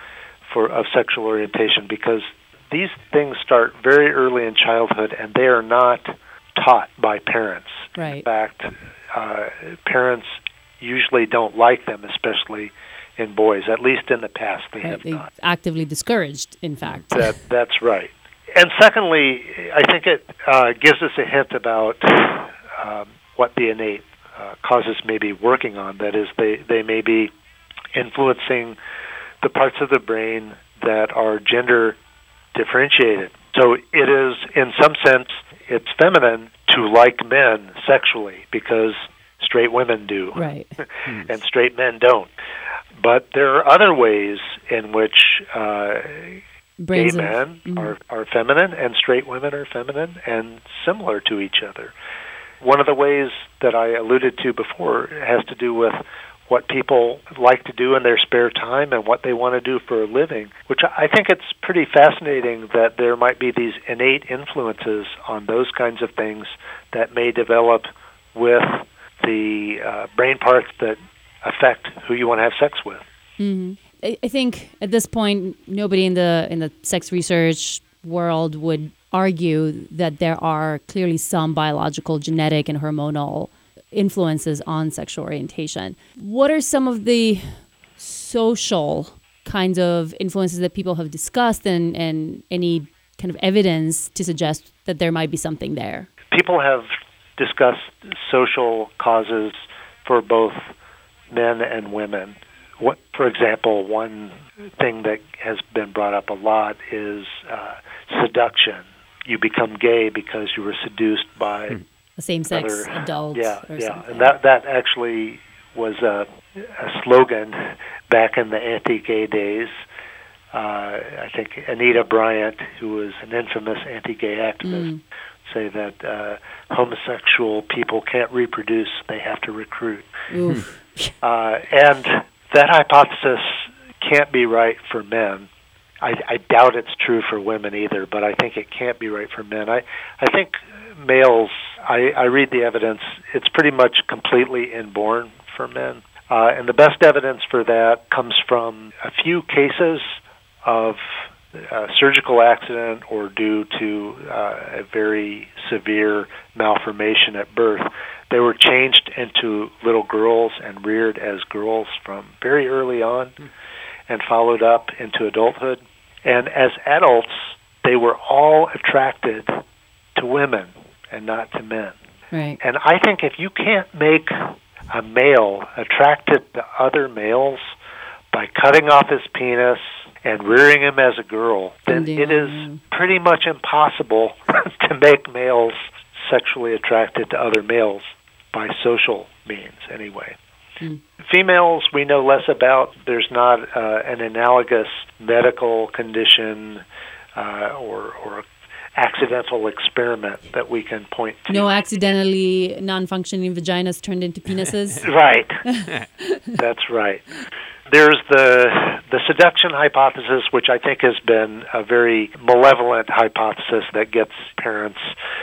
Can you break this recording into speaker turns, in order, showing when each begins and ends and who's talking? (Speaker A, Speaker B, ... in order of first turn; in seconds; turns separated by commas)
Speaker A: 0.5-15.2, Speaker B: 8.0-8.2, Speaker B: 14.8-17.3, Speaker A: 17.1-27.3, Speaker A: 27.9-28.8, Speaker A: 29.4-32.0, Speaker A: 32.5-40.4, Speaker B: 40.4-40.7, Speaker A: 41.0-42.3, Speaker A: 43.0-46.4, Speaker B: 46.8-47.9, Speaker A: 46.9-51.9, Speaker A: 52.6-73.0, Speaker B: 73.4-96.1, Speaker A: 96.3-100.6, Speaker A: 101.3-111.8, Speaker B: 112.2-114.3, Speaker A: 112.5-119.8, Speaker A: 120.5-124.9, Speaker B: 124.6-125.0, Speaker A: 125.5-130.1, Speaker B: 130.3-131.1, Speaker A: 131.2-135.5, Speaker A: 136.0-151.0, Speaker A: 151.6-163.3, Speaker A: 164.1-169.6, Speaker A: 170.2-171.9, Speaker B: 172.3-172.6, Speaker A: 172.6-177.7, Speaker A: 178.3-190.4, Speaker B: 181.9-182.8, Speaker A: 191.2-196.8, Speaker A: 197.3-201.7, Speaker B: 201.5-205.0, Speaker A: 205.0-205.6, Speaker B: 205.7-206.4, Speaker A: 206.6-207.2, Speaker A: 207.9-215.1